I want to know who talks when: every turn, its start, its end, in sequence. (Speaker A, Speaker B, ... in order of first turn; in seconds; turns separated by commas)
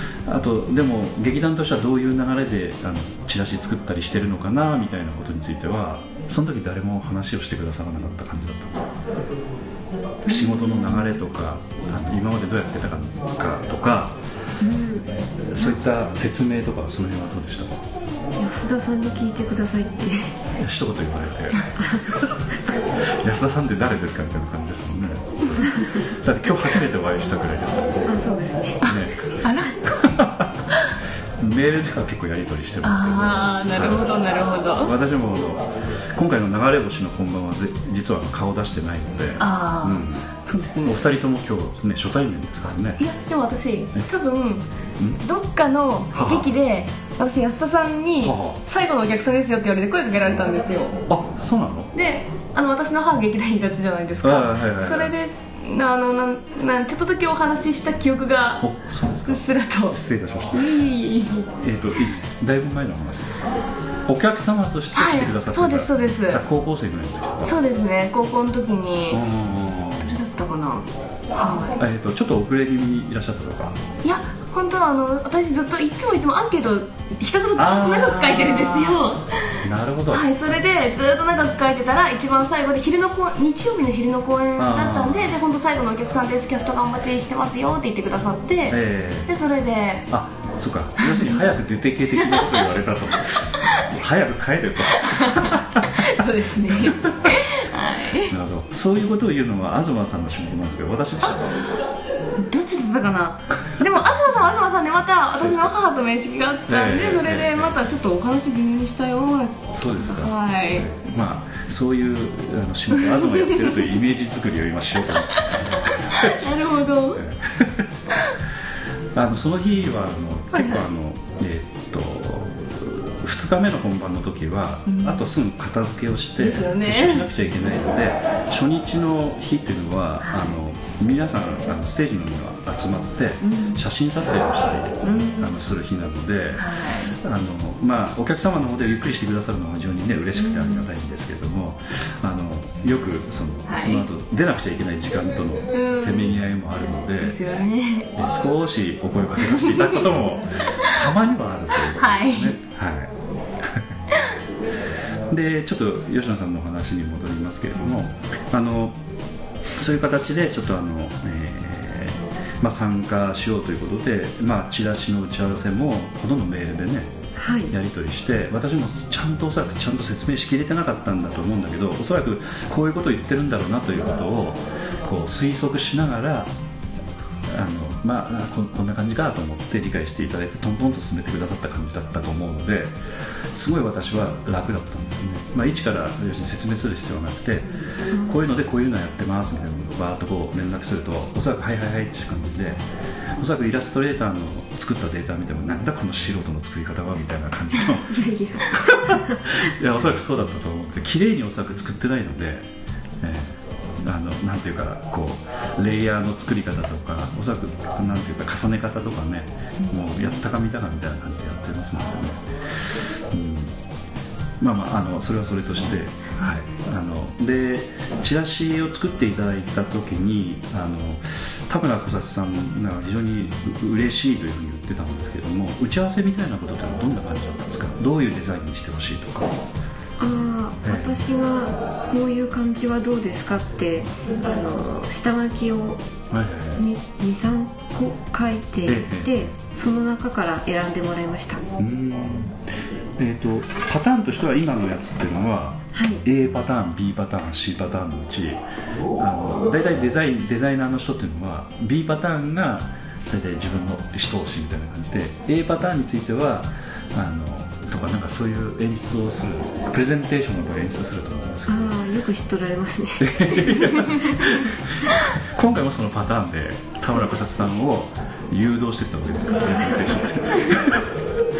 Speaker A: 0.2-8.9, Speaker A: 10.3-14.2, Speaker B: 10.3-11.2, Speaker B: 14.6-15.1, Speaker A: 15.4-17.8, Speaker B: 18.4-20.4, Speaker A: 20.6-22.4, Speaker B: 21.8-22.1, Speaker A: 23.1-28.1, Speaker B: 28.1-28.8, Speaker C: 28.8-29.7, Speaker A: 28.8-30.5, Speaker A: 31.4-34.1, Speaker C: 32.8-35.0, Speaker A: 34.8-40.3, Speaker C: 39.4-41.1, Speaker A: 40.8-43.0, Speaker C: 43.0-51.0, Speaker A: 46.1-46.5, Speaker A: 48.2-48.6, Speaker A: 51.1-51.9, Speaker C: 51.9-58.7, Speaker A: 54.2-55.1, Speaker A: 58.6-60.7, Speaker C: 59.3-60.0, Speaker C: 60.5-61.5, Speaker A: 61.6-67.6, Speaker C: 65.0-66.4, Speaker C: 67.4-69.2, Speaker A: 69.1-70.2, Speaker C: 70.0-71.8, Speaker A: 71.8-73.8, Speaker C: 74.0-79.4, Speaker A: 77.6-80.2, Speaker C: 80.1-90.1, Speaker A: 84.6-85.3, Speaker A: 88.7-89.3, Speaker A: 90.1-96.2, Speaker C: 91.0-91.4, Speaker C: 92.2-92.6, Speaker C: 94.9-98.3, Speaker A: 96.7-97.4, Speaker A: 98.3-101.6, Speaker C: 102.4-110.9, Speaker A: 105.4-105.7, Speaker A: 106.7-107.8, Speaker A: 109.7-116.5, Speaker C: 116.1-117.2, Speaker A: 117.2-117.9, Speaker A: 119.1-147.4, Speaker C: 120.5-120.8, Speaker C: 124.9-125.2, Speaker C: 126.4-127.3, Speaker C: 130.2-130.6, Speaker C: 133.4-133.8, Speaker C: 135.0-135.5, Speaker C: 136.6-137.1, Speaker C: 140.4-140.9, Speaker C: 143.7-144.1, Speaker C: 145.7-146.3, Speaker C: 147.2-148.1, Speaker A: 148.2-153.8, Speaker C: 149.5-149.9, Speaker C: 151.9-152.6, Speaker A: 155.3-159.0, Speaker A: 159.8-167.1, Speaker B: 167.4-167.7, Speaker A: 167.7-176.5, Speaker A: 177.5-183.0, Speaker A: 183.5-192.8, Speaker B: 188.1-188.4, Speaker A: 193.4-198.2, Speaker B: 198.1-199.4, Speaker A: 198.7-202.7, Speaker A: 203.2-213.8, Speaker A: 214.6-229.6, Speaker B: 230.2-236.0, Speaker A: 230.8-231.2, Speaker A: 236.3-236.8, Speaker B: 236.8-241.6, Speaker A: 238.9-239.5, Speaker A: 241.8-248.6, Speaker B: 245.9-246.2, Speaker A: 249.2-261.9, Speaker B: 261.7-264.5, Speaker A: 263.2-271.2, Speaker B: 267.0-267.7, Speaker B: 269.8-270.3